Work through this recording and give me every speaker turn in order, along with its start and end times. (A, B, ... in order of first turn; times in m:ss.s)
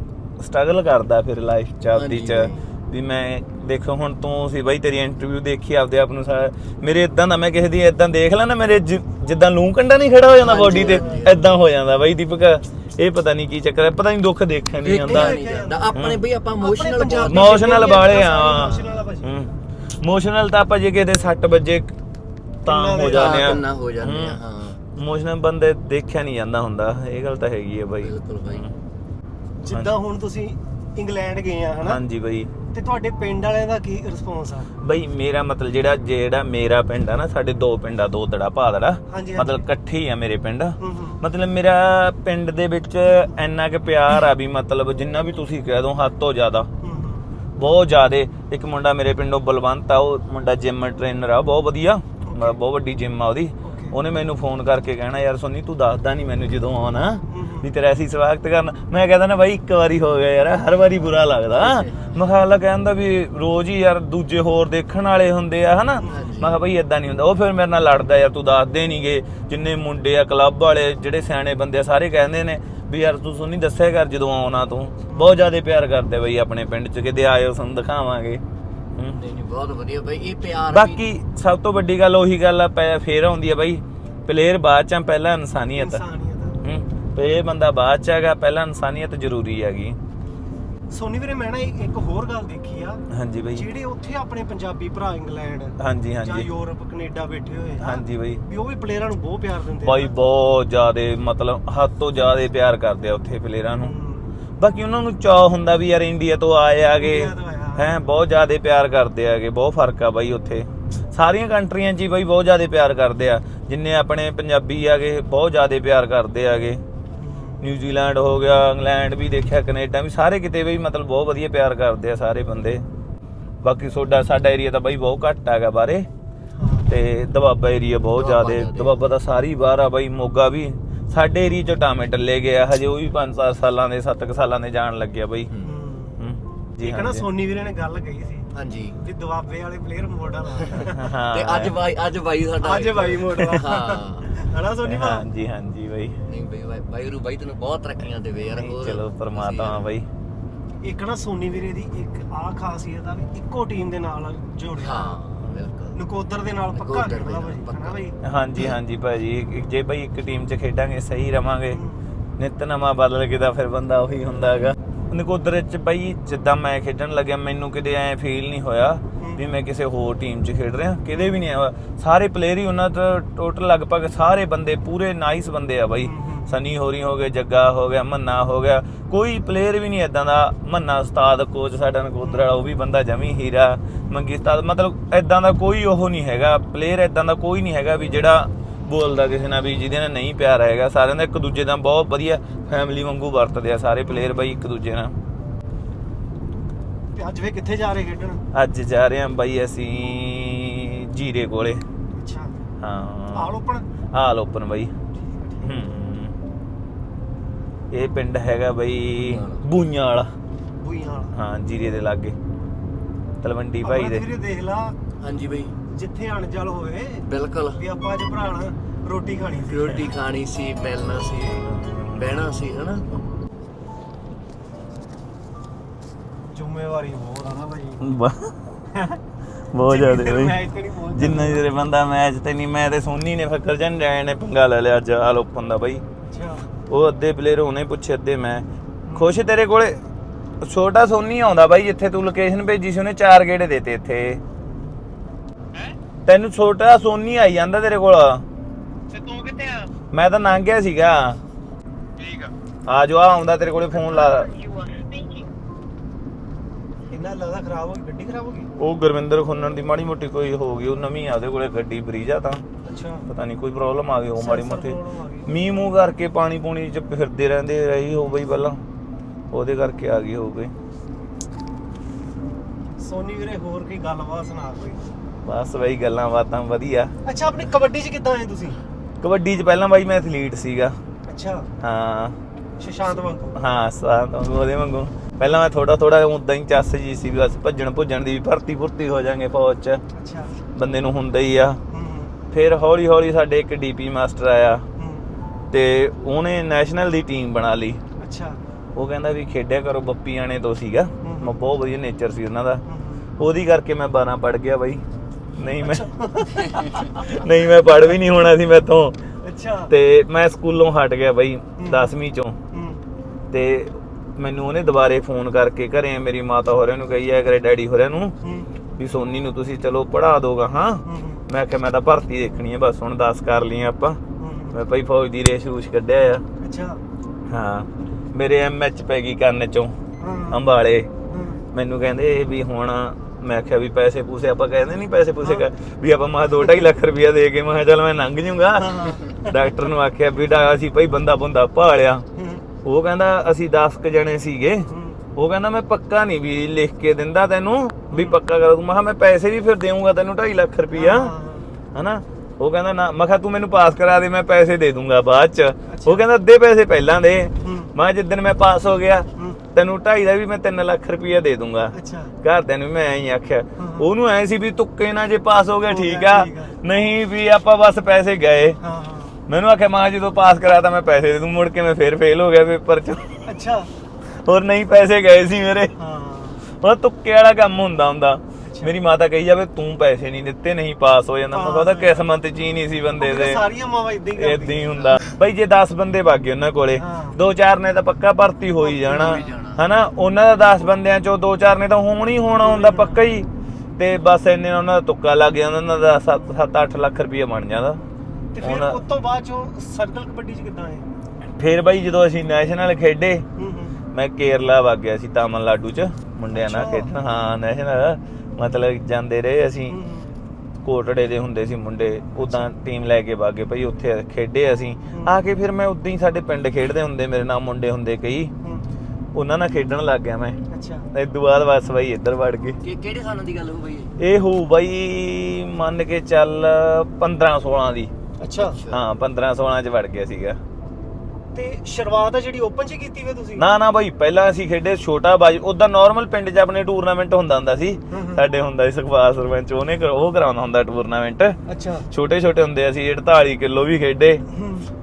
0:00.4-0:15.4 A
0:01.9-0:02.6 B
0:10.4-0:11.5 B
0:10.7-0:11.3 C
0:14.8-0:19.0 B
0:15.0-0:16.1 C
0:15.9-0:16.2 A
0:16.6-0:19.4 C
0:17.3-0:21.9 A
0:22.6-0:23.6 C
0:22.6-0:24.4 A
0:23.1-0:24.8 B
0:24.9-0:28.7 A
0:28.0-0:28.7 B
0:29.6-0:32.0 C
0:31.8-0:32.5 A
0:32.7-0:34.7 C
0:34.8-0:46.7 A
0:39.1-0:39.6 C
0:40.8-0:41.2 C
0:46.8-0:47.2 C
0:47.6-1:18.4 A
0:52.2-0:52.6 C
0:53.6-0:54.0 C
0:57.3-0:57.7 C
1:01.5-1:02.2 B
1:06.0-1:06.3 C
1:06.0-1:06.6 B
1:15.1-1:15.5 C
1:19.2-1:21.0 B
1:20.7-1:26.0 A
1:25.8-1:26.6 C
1:26.6-1:30.0 A
1:30.9-1:33.0 C
1:33.1-1:33.6 A
1:33.5-1:40.1 C
1:35.8-1:36.5 A
1:37.8-1:38.4 A
1:39.8-1:43.9 A
1:43.8-1:44.3 C
1:44.6-1:56.8 A
1:47.0-1:48.0 C
1:57.2-1:57.6 C
1:57.6-2:02.8 A
2:03.6-2:06.1 A
2:06.6-2:06.9 C
2:06.9-2:15.5 A
2:08.2-2:09.1 B
2:15.5-2:15.8 B
2:15.6-2:16.2 C
2:16.2-2:17.2 A
2:16.8-2:21.1 C
2:18.5-2:19.0 B
2:20.9-2:21.7 A
2:21.3-2:24.3 B
2:22.6-2:25.2 C
2:24.8-2:26.2 A
2:26.3-2:29.9 B
2:28.5-2:30.1 A
2:30.8-2:35.2 C
2:34.8-2:36.0 B
2:35.9-2:38.2 C
2:36.7-2:38.0 B
2:38.2-2:41.8 A
2:41.7-2:42.0 C
2:42.4-3:15.2 A
2:49.1-2:49.4 C
2:51.1-2:51.4 C
2:56.0-2:56.5 C
3:02.2-3:02.5 C
3:14.1-3:14.4 C
3:17.1-3:18.4 C
3:18.5-3:21.8 A
3:22.1-3:22.6 C
3:22.8-3:23.5 A
3:23.3-3:23.8 C
3:24.1-3:24.9 A
3:25.1-3:25.8 C
3:25.6-3:26.3 A
3:27.9-3:30.3 A
3:29.2-3:29.6 B
3:30.8-3:31.3 C
3:31.3-3:32.4 A
3:33.4-3:34.2 A
3:33.8-3:35.0 C
3:35.2-3:35.7 B
3:35.9-3:40.0 C
3:37.2-3:37.8 B
3:39.6-3:43.1 B
3:41.7-3:42.3 A
3:46.5-3:48.1 C
3:48.0-3:48.6 A
3:48.9-3:49.2 C
3:49.7-3:50.6 A
3:49.8-3:51.6 C
3:51.1-3:56.0 A
3:56.2-3:56.7 C
3:56.9-4:00.0 A
3:59.1-3:59.4 C
4:00.6-4:04.4 A
4:06.2-4:08.4 A
4:10.1-4:11.4 A
4:12.3-4:14.5 A
4:17.1-4:18.7 C
4:18.8-4:22.6 A
4:22.8-4:23.3 C
4:23.3-4:28.8 A
4:24.4-4:25.5 C
4:29.5-4:30.7 A
4:33.0-4:35.1 C
4:35.4-4:37.1 A
4:37.2-4:38.8 C
4:39.2-4:41.0 A
4:41.3-4:41.7 C
4:41.8-4:42.4 A
4:42.8-4:43.6 C
4:43.5-4:50.0 A
4:50.1-4:50.5 C
4:50.7-4:51.8 A
4:51.9-4:52.3 C
4:52.5-4:54.8 A
4:55.0-4:55.4 C
4:55.7-4:58.0 A
4:58.2-4:58.6 C
4:59.0-5:02.8 A
5:01.2-5:01.6 C
5:02.8-5:03.2 C
5:03.4-5:05.0 A
5:05.6-5:06.0 A
5:05.6-5:07.4 C
5:06.6-5:09.2 A
5:09.4-5:09.9 C
5:09.9-5:12.6 A
5:11.8-5:12.1 C
5:12.7-5:13.0 C
5:13.5-5:18.4 A
5:18.4-5:18.7 C
5:19.0-5:24.2 A
5:21.0-5:21.4 C
5:24.4-5:24.8 C
5:24.7-5:26.4 A
5:26.6-5:27.0 C
5:27.5-5:29.9 A
5:30.2-5:30.6 C
5:30.5-5:31.1 A
5:31.3-5:31.6 C
5:31.7-5:42.2 A
5:38.8-5:39.6 C
5:42.3-5:42.6 C
5:42.8-5:51.3 A
5:44.9-5:45.2 C
5:48.1-5:48.4 C
5:50.9-5:51.8 C
5:51.9-6:08.8 A
5:55.9-5:56.2 C
5:57.6-5:57.9 C
5:59.3-5:59.6 C
6:01.9-6:02.3 C
6:03.8-6:04.1 C
6:05.9-6:06.8 C
6:08.8-6:09.4 C
6:09.5-6:13.4 A
6:13.4-6:13.9 C
6:14.3-6:15.9 A
6:16.0-6:16.6 C
6:16.6-6:23.6 A
6:18.6-6:18.9 C
6:21.5-6:22.2 C
6:23.2-6:25.0 C
6:24.4-6:33.5 A
6:27.0-6:27.4 C
6:28.9-6:29.4 C
6:28.9-6:29.8 B
6:32.6-6:33.2 C
6:34.0-6:38.0 A
6:38.5-6:41.1 C
6:38.6-6:39.0 A
6:41.6-6:43.4 A
6:43.6-6:44.0 C
6:44.1-6:50.0 A
6:46.5-6:47.2 C
6:49.9-6:50.3 C
6:50.8-6:58.5 A
6:52.4-6:52.7 C
6:58.6-6:58.9 C
6:59.3-7:00.6 A
7:00.7-7:01.1 C
7:01.1-7:02.8 A
7:02.8-7:04.1 B
7:04.2-7:08.1 A
7:08.4-7:08.8 C
7:08.5-7:09.0 B
7:08.9-7:10.6 A
7:11.5-7:13.6 C
7:13.6-7:21.6 A
7:18.1-7:18.4 C
7:21.6-7:22.1 C
7:22.1-7:24.4 A
7:24.5-7:24.9 C